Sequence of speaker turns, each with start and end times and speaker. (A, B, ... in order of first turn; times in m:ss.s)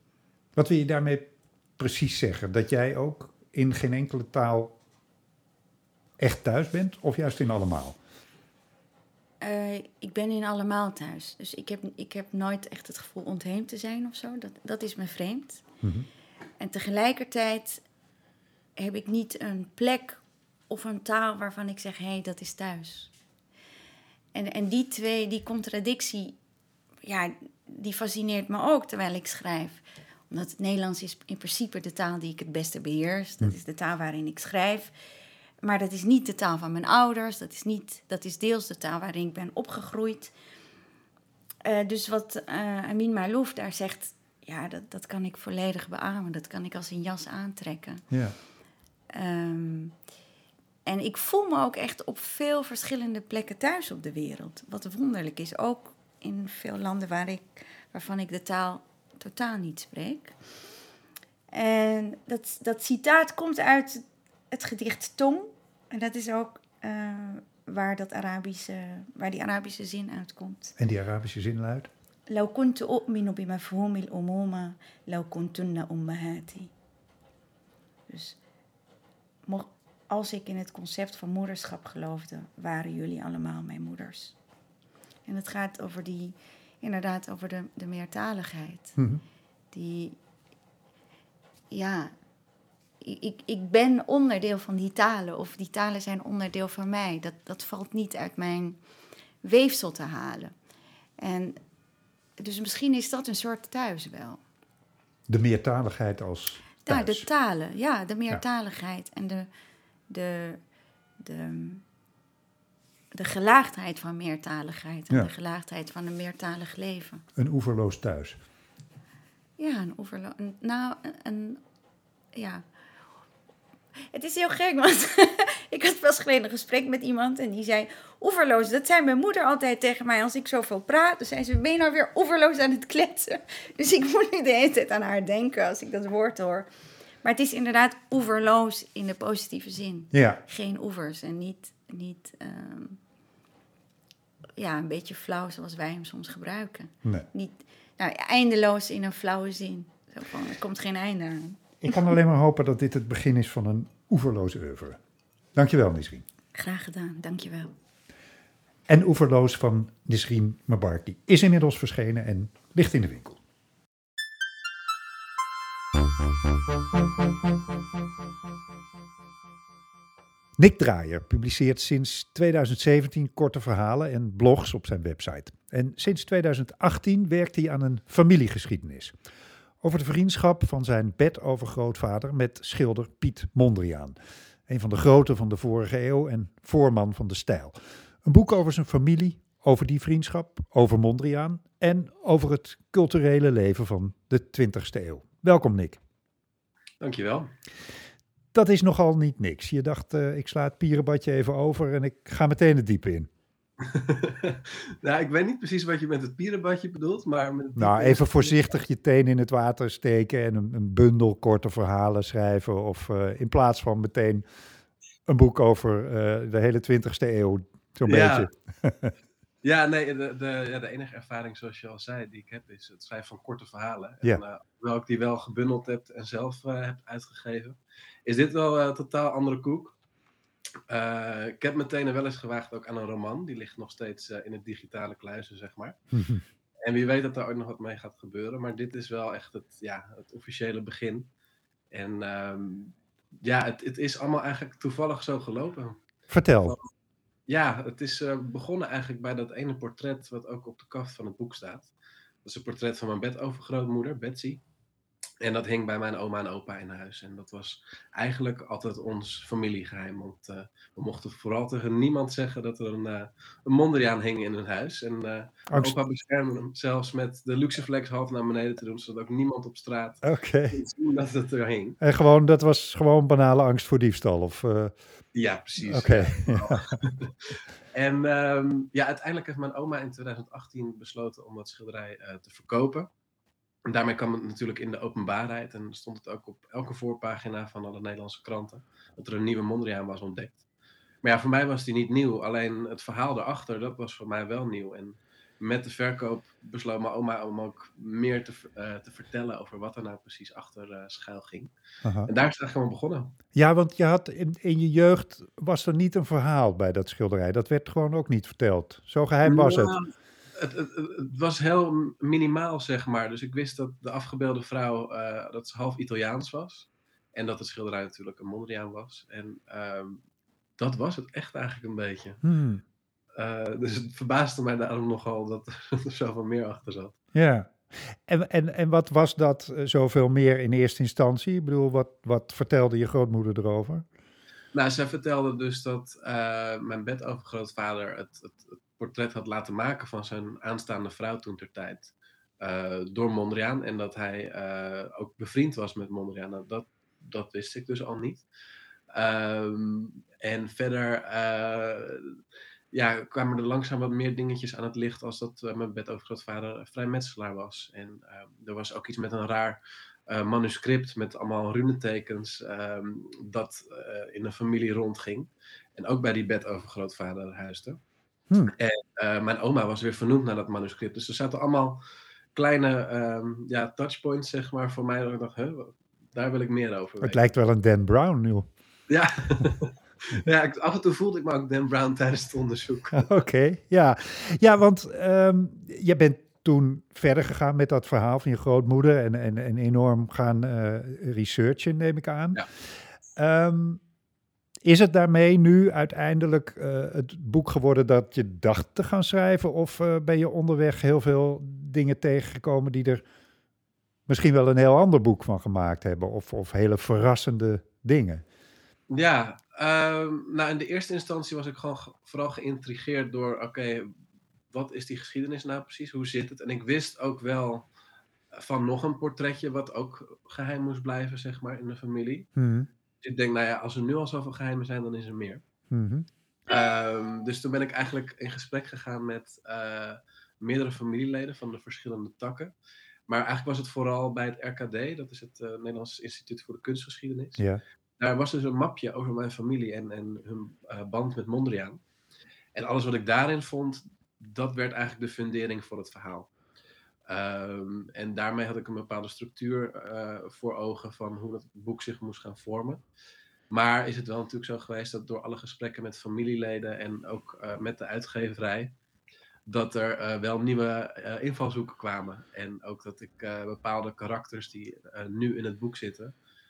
0:00.5-0:04.7 A
0:06.2-0:08.0 A
0:09.4-0:15.6 B
0:15.8-0:16.1 A
0:16.6-0:17.8 B
0:18.8-0:23.1 B
0:24.3-0:26.4 B
0:27.0-0:34.9 B
0:35.6-0:40.3 B
0:41.6-0:48.0 B
0:49.1-0:50.0 B
0:50.8-1:00.4 B
1:01.5-1:10.8 B
1:10.8-1:11.9 A
1:12.3-1:16.7 B
1:18.1-1:18.4 B
1:19.4-1:24.4 B
1:25.2-1:29.0 B
1:29.7-1:30.2 B
1:31.7-1:32.1 B
1:33.0-1:38.8 B
1:39.4-1:40.5 B
1:41.2-1:41.6 B
1:42.4-1:44.4 B
1:45.3-1:47.3 A
1:46.8-1:49.5 B
1:50.1-1:50.6 B
1:51.2-1:51.8 B
1:53.1-1:57.2 B
1:57.4-1:58.4 A
1:59.6-2:01.6 B
2:02.3-2:02.6 B
2:04.1-2:16.7 B
2:17.2-2:23.0 B
2:20.1-2:20.4 A
2:24.6-2:32.0 B
2:31.8-2:35.0 A
2:35.5-2:36.2 A
2:36.5-2:37.7 B
2:38.9-2:43.4 A
2:50.6-2:59.1 A
2:59.8-3:04.2 A
3:04.7-3:16.0 A
3:17.0-3:17.5 C
3:18.5-3:23.3 A
3:23.9-3:28.6 C
3:27.8-3:34.4 A
3:35.3-3:39.1 A
3:38.0-3:38.5 C
3:39.6-3:50.0 C
3:50.9-3:56.0 C
3:56.1-3:56.4 A
3:56.8-4:01.3 C
4:01.9-4:06.0 C
4:06.3-4:06.8 A
4:07.5-4:11.9 C
4:12.4-4:14.6 C
4:15.4-4:32.0 C
4:30.2-4:30.8 A
4:32.0-4:34.9 A
4:35.3-4:43.1 C
4:35.8-4:36.9 A
4:43.8-4:50.6 C
4:51.2-5:01.7 C
5:02.0-5:02.3 A
5:02.3-5:03.4 C
5:03.5-5:10.0 A
5:09.4-5:20.2 C
5:20.8-5:22.4 C
5:22.4-5:22.8 A
5:23.4-5:27.2 C
5:27.3-5:34.0 A
5:34.7-5:48.4 C
5:49.1-5:52.4 C
5:52.9-6:08.0 C
6:08.8-6:12.0 C
6:12.6-6:17.4 C
6:17.2-6:18.7 A
6:19.1-6:23.3 C
6:23.1-6:32.7 A
6:33.4-6:34.0 A
6:34.8-6:43.2 A
6:44.3-6:48.4 A
6:49.1-6:54.1 C
6:54.7-6:57.8 C
6:58.5-7:02.5 C
7:02.6-7:02.9 A
7:03.2-7:05.6 C
7:05.9-7:06.3 A
7:06.7-7:12.7 C
7:13.3-7:17.6 C
7:18.2-7:22.0 C
7:22.7-7:26.5 C
7:27.3-7:33.0 C
7:33.7-7:38.9 C
7:39.7-7:46.3 C